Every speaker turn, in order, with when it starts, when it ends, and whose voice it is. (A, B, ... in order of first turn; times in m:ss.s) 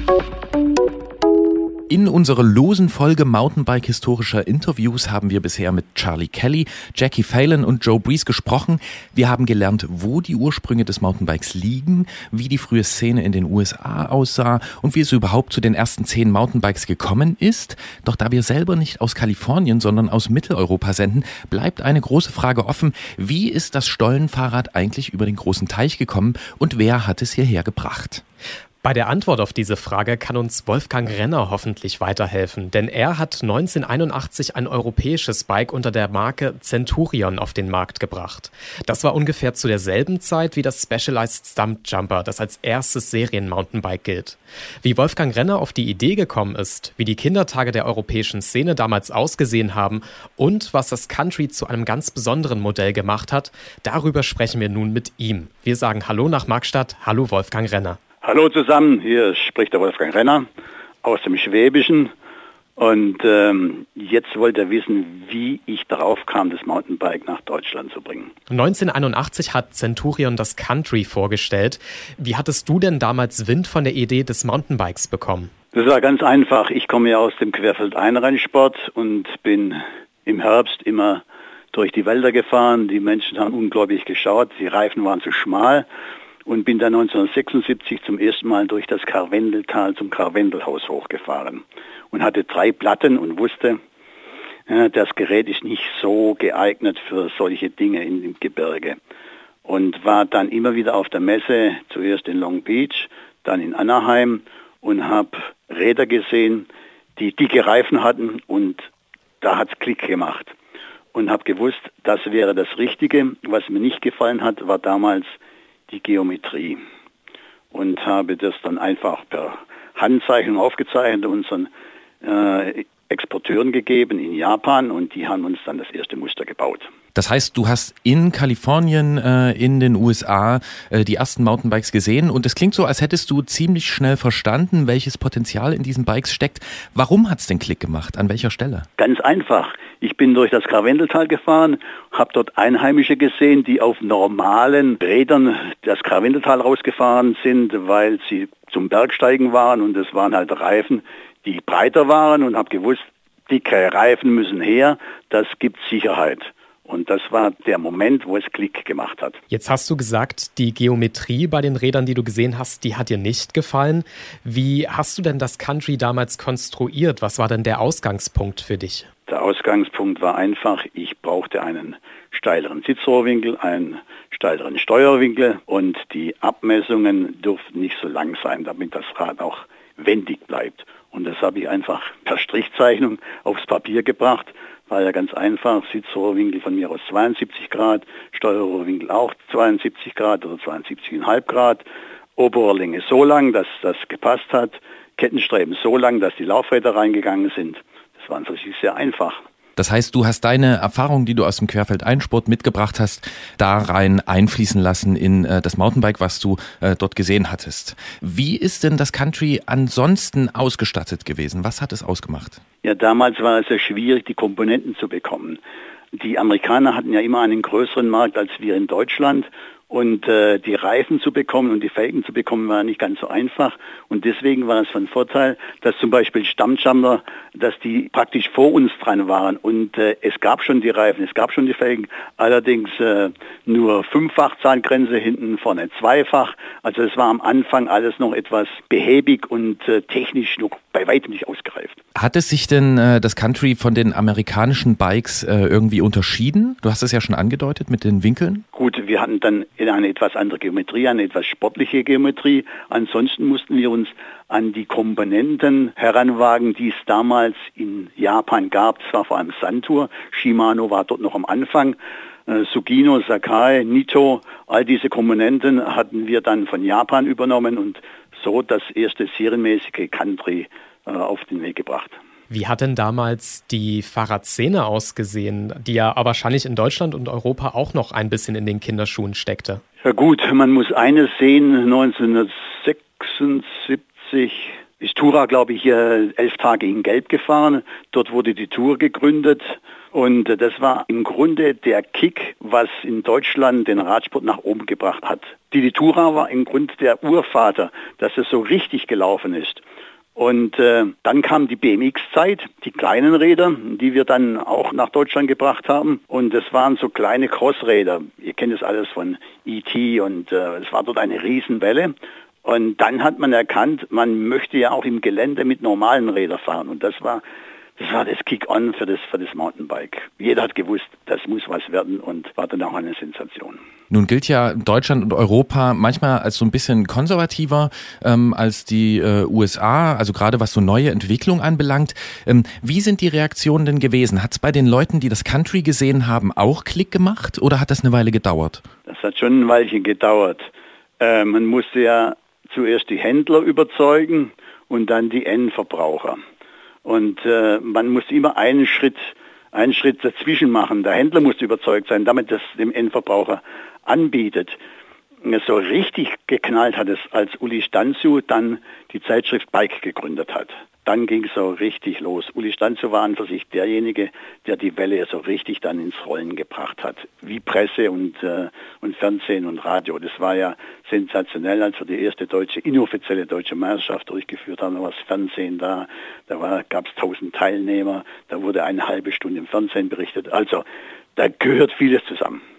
0:01.9-0:28.2 A
0:28.8-0:58.0 B
0:58.2-1:00.5 C
1:01.0-1:02.1 C
1:02.8-1:08.3 C
1:08.5-1:15.5 B
1:15.7-1:25.9 C
1:26.5-1:33.8 C
1:34.7-1:39.0 C
1:39.6-1:48.9 C
1:49.4-1:50.5 C
1:51.1-1:55.4 C
1:55.9-1:56.8 C
1:57.7-2:01.7 C
2:02.2-2:06.9 C
2:07.2-2:18.9 A
2:19.0-2:39.4 C
2:39.5-2:49.1 B
2:49.3-3:11.8 C
3:12.4-3:19.4 C
3:19.8-3:32.6 A
3:32.8-3:35.6 C
3:36.1-4:02.0 C
4:02.2-4:08.6 A
4:08.7-4:32.2 C
4:32.5-4:39.8 B
4:40.0-4:59.8 C
5:00.4-5:12.1 C
5:12.6-5:17.4 C
5:18.0-5:23.8 C
5:24.1-5:38.9 A
5:39.1-5:40.7 C
5:41.2-5:46.4 C
5:47.0-5:54.8 C
5:55.4-6:20.8 C
6:21.4-6:22.6 C